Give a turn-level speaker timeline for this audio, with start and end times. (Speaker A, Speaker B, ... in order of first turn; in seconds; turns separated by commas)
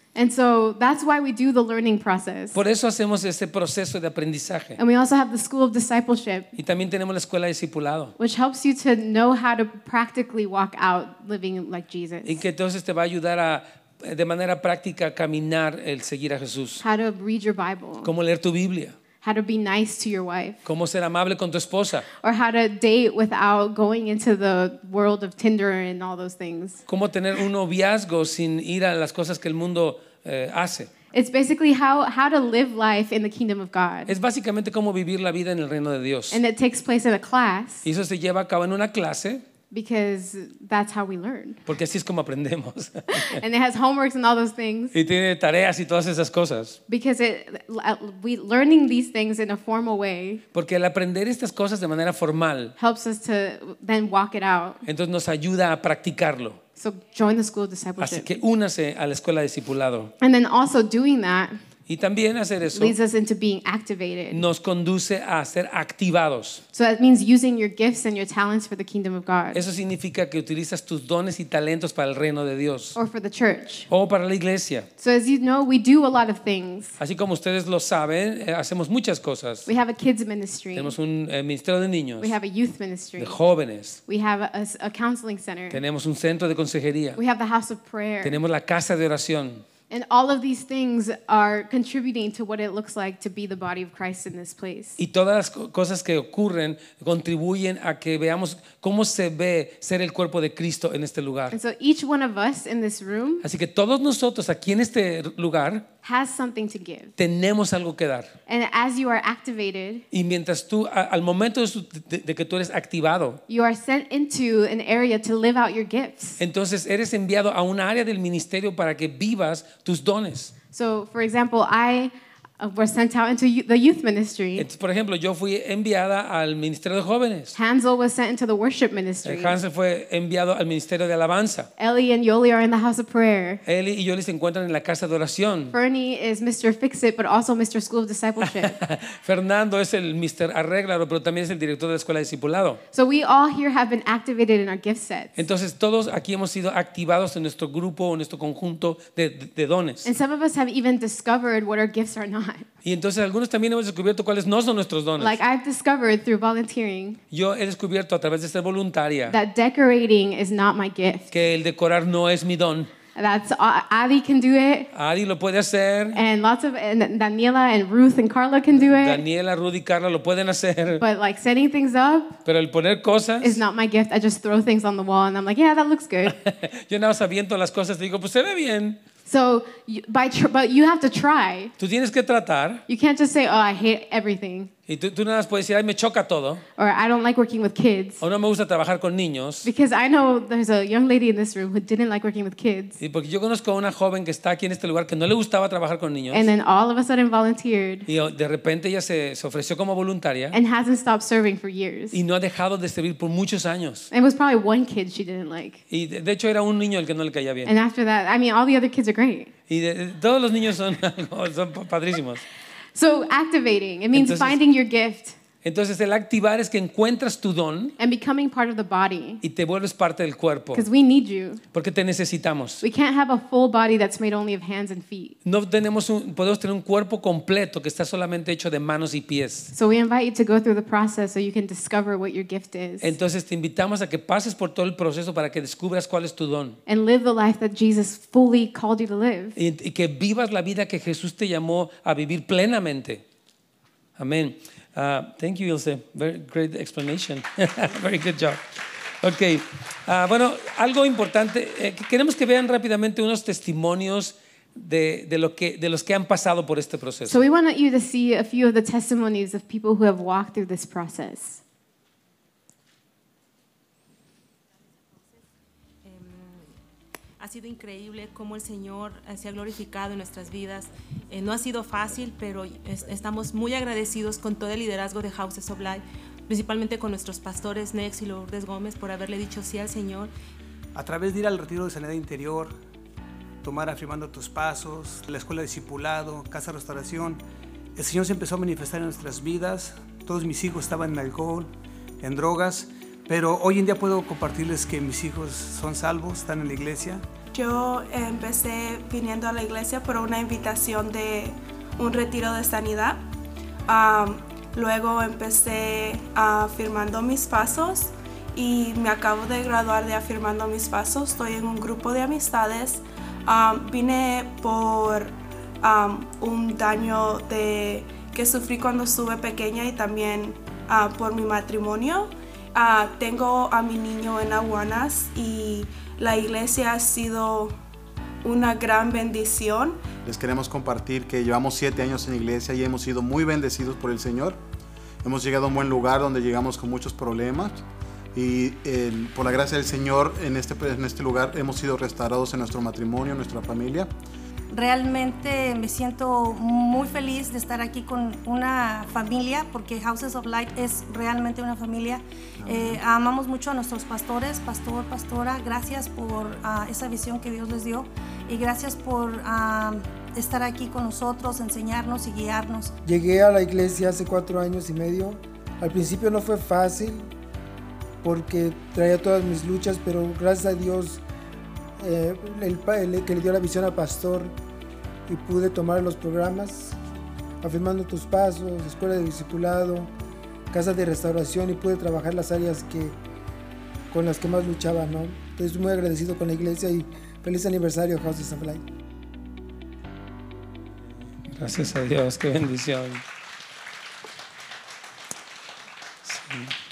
Speaker A: 0.1-2.6, Speaker B: 2.5-4.8, Speaker A: 4.8-6.5, Speaker B: 6.6-8.2, Speaker A: 8.2-12.4, Speaker B: 12.2-16.8, Speaker A: 16.8-18.1, Speaker B: 18.0-19.0, Speaker A: 19.2-20.6, Speaker B: 20.6-22.1, Speaker A: 22.2-26.8, Speaker B: 26.9-30.9, Speaker A: 31.1-34.1, Speaker B: 34.1-36.4, Speaker A: 36.3-37.9, Speaker B: 37.8-39.4, Speaker A: 39.7-41.6, Speaker B: 41.7-43.4, Speaker A: 43.1-45.0, Speaker B: 44.9-46.8, Speaker A: 46.9-50.4, Speaker B: 50.5-52.8, Speaker A: 52.8-54.8, Speaker B: 54.9-56.6, Speaker A: 56.8-58.3, Speaker B: 58.0-60.1, Speaker A: 60.2-61.6, Speaker B: 61.9-63.0, Speaker A: 62.7-64.4, Speaker B: 64.3-66.6, Speaker A: 66.7-69.6, Speaker B: 69.5-73.0, Speaker A: 73.0-73.9, Speaker B: 73.9-74.9, Speaker A: 75.0-77.0, Speaker B: 77.0-79.7, Speaker A: 79.7-81.0, Speaker B: 80.8-82.4, Speaker A: 82.2-83.4, Speaker B: 83.2-84.0, Speaker A: 84.1-85.8, Speaker B: 85.7-87.2, Speaker A: 87.2-88.4, Speaker B: 88.2-89.6, Speaker A: 89.9-95.0, Speaker B: 95.0-101.6, Speaker A: 101.5-103.5, Speaker B: 103.4-105.9, Speaker A: 106.0-107.1, Speaker B: 107.2-108.3, Speaker A: 108.5-110.0, Speaker B: 110.1-113.4, Speaker A: 113.5-116.4, Speaker B: 116.4-120.5, Speaker A: 120.7-124.7, Speaker B: 124.6-127.6, Speaker A: 127.5-129.6, Speaker B: 129.2-131.7, Speaker A: 131.8-133.6, Speaker B: 133.7-135.8, Speaker A: 135.7-138.8, Speaker B: 138.4-142.8, Speaker A: 142.9-145.3, Speaker B: 145.4-150.1, Speaker A: 150.0-152.7, Speaker B: 152.8-155.4, Speaker A: 155.2-157.2, Speaker B: 157.3-159.4, Speaker A: 159.3-161.3, Speaker B: 161.3-162.9, Speaker A: 163.2-164.9, Speaker B: 164.9-166.2, Speaker A: 166.1-169.2, Speaker B: 168.8-171.0, Speaker A: 171.0-172.4, Speaker B: 172.4-173.6, Speaker A: 173.4-176.4, Speaker B: 176.3-179.0, Speaker A: 179.3-181.7, Speaker B: 181.8-182.8, Speaker A: 182.9-184.7, Speaker B: 184.9-186.6, Speaker A: 186.8-188.2, Speaker B: 188.2-189.7, Speaker A: 189.6-193.0, Speaker B: 193.0-196.5, Speaker A: 196.3-198.1, Speaker B: 198.1-200.6, Speaker A: 200.5-202.2, Speaker B: 202.1-204.1, Speaker A: 204.1-205.8, Speaker B: 205.9-207.7, Speaker A: 207.7-209.5, Speaker B: 209.7-212.4, Speaker A: 212.9-215.4, Speaker B: 214.1-214.6, Speaker B: 215.6-217.9, Speaker A: 218.0-219.4, Speaker B: 219.4-220.9, Speaker A: 220.7-221.6, Speaker B: 221.7-222.8, Speaker A: 222.8-225.3, Speaker B: 225.4-229.7, Speaker A: 229.7-233.1, Speaker B: 233.0-236.8, Speaker A: 236.9-239.6, Speaker B: 239.6-243.2, Speaker B: 244.2-257.4, Speaker A: 257.3-261.6, Speaker C: 266.0-266.7, Speaker C: 267.4-280.3, Speaker D: 280.9-282.8, Speaker D: 283.6-287.4, Speaker D: 288.0-297.3, Speaker E: 297.5-303.2, Speaker E: 303.9-327.8, Speaker E: 328.4-330.1, Speaker F: 330.2-334.6, Speaker F: 335.2-337.8, Speaker F: 338.4-344.1, Speaker G: 344.7-362.9, Speaker F: 352.6-353.0, Speaker H: 363.0-367.3, Speaker H: 368.2-371.2, Speaker H: 372.0-374.5, Speaker H: 375.3-377.0, Speaker H: 377.6-380.1, Speaker H: 380.7-383.1, Speaker H: 384.1-388.8, Speaker B: 391.5-393.2, Speaker B: 396.2-396.7